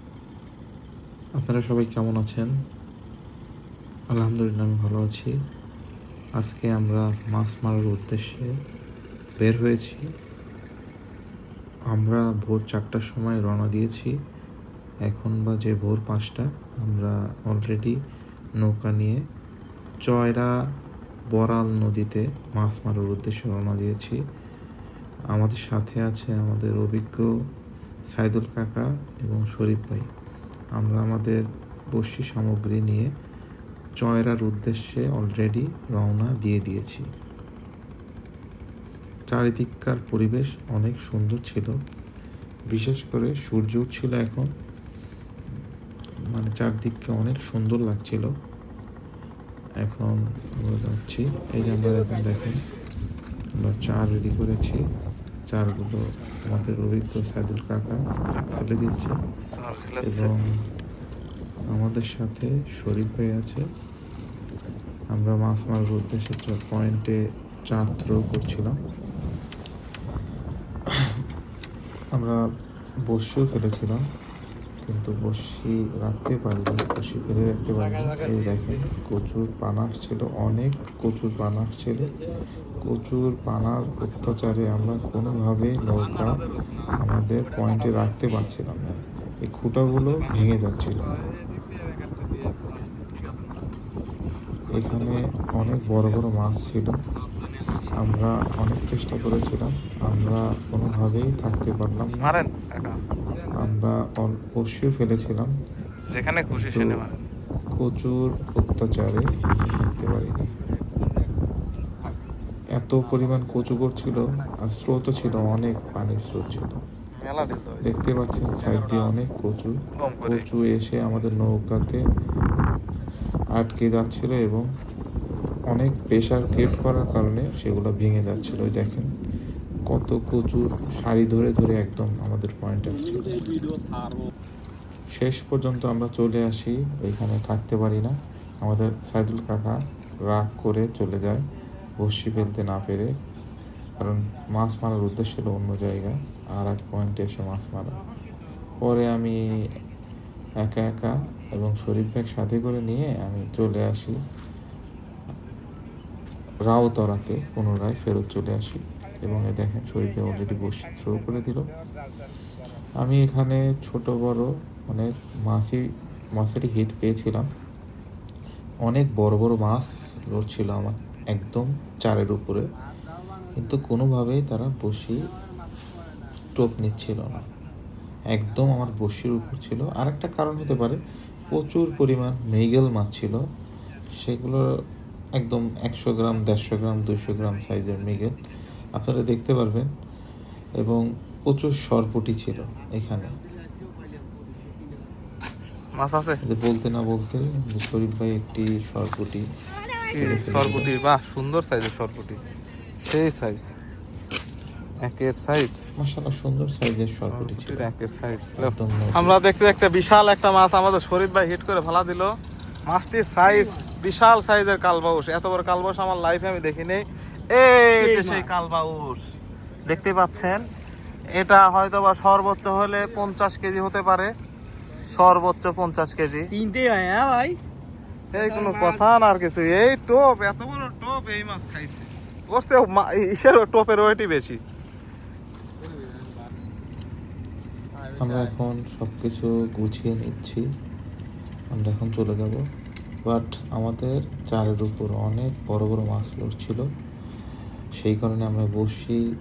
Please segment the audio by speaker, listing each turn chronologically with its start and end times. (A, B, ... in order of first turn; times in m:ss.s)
0:01.4-0:02.5 A
0:04.1-0:05.3 A
0:06.4-0:08.5 A
0:09.4-0:10.1 A
0:11.9-0:14.2 A
0:15.1-0:18.0 A
0:18.6-0:19.2 A
0:20.0-0:20.5 A
0:21.3-0:24.2 A
0:25.3-0:27.3 A
0:28.1-0:30.1 A
0:30.8-0:33.1 A
0:34.0-0:37.1 A
0:39.3-0:41.8 A
0:42.7-0:44.5 A
0:46.3-0:48.3 A
0:49.8-0:52.6 A
0:53.6-0:54.8 A
0:55.5-0:59.2 A
0:59.5-1:00.3 B
1:00.0-1:00.5 A
1:01.7-1:03.6 A
1:05.1-1:07.2 A
1:07.7-1:08.8 A
1:11.0-1:11.2 A
1:13.1-1:14.0 A
1:14.9-1:22.2 A
1:22.8-1:26.4 A
1:26.0-1:26.9 B
1:27.0-1:31.0 A
1:30.1-1:30.5 B
1:32.2-1:33.4 B
1:34.7-1:37.0 A
1:38.0-1:42.3 A
1:42.1-1:43.0 B
1:43.5-1:45.5 A
1:46.1-1:47.3 B
1:46.5-1:47.0 A
1:47.8-1:50.5 A
1:52.8-1:56.8 A
1:57.1-1:58.0 B
1:57.8-2:02.0 A
1:58.6-1:58.9 B
1:59.9-2:00.5 B
2:03.6-2:04.7 A
2:05.7-2:09.1 A
2:09.9-2:13.6 A
2:15.2-2:21.4 A
2:22.0-2:23.1 A
2:24.0-2:28.0 A
2:28.8-2:29.4 A
2:30.6-2:34.2 A
2:36.7-2:41.7 A
2:43.0-2:45.8 A
2:46.4-2:47.5 A
2:48.9-2:52.7 A
2:53.6-2:55.3 A
2:56.5-2:57.5 A
2:58.3-3:03.4 A
3:04.2-3:04.6 A
3:05.4-3:08.4 A
3:09.0-3:09.9 A
3:10.8-3:13.4 A
3:15.9-3:16.4 B
3:16.4-3:19.4 A
3:20.1-3:22.4 B
3:20.2-3:20.9 A
3:23.0-3:23.8 B
3:25.0-3:25.9 B
3:26.0-3:27.9 A
3:27.3-3:32.4 B
3:28.6-3:29.4 A
3:32.9-3:39.2 B
3:38.0-3:38.5 C
3:39.9-3:40.6 B
3:41.3-3:44.3 B
3:45.1-3:46.5 B
3:46.5-3:47.6 C
3:48.3-3:54.6 B
3:48.3-3:49.0 C
3:58.0-3:58.5 B
3:58.2-4:00.6 A
4:01.7-4:02.6 A
4:03.3-4:06.9 A
4:08.0-4:09.2 A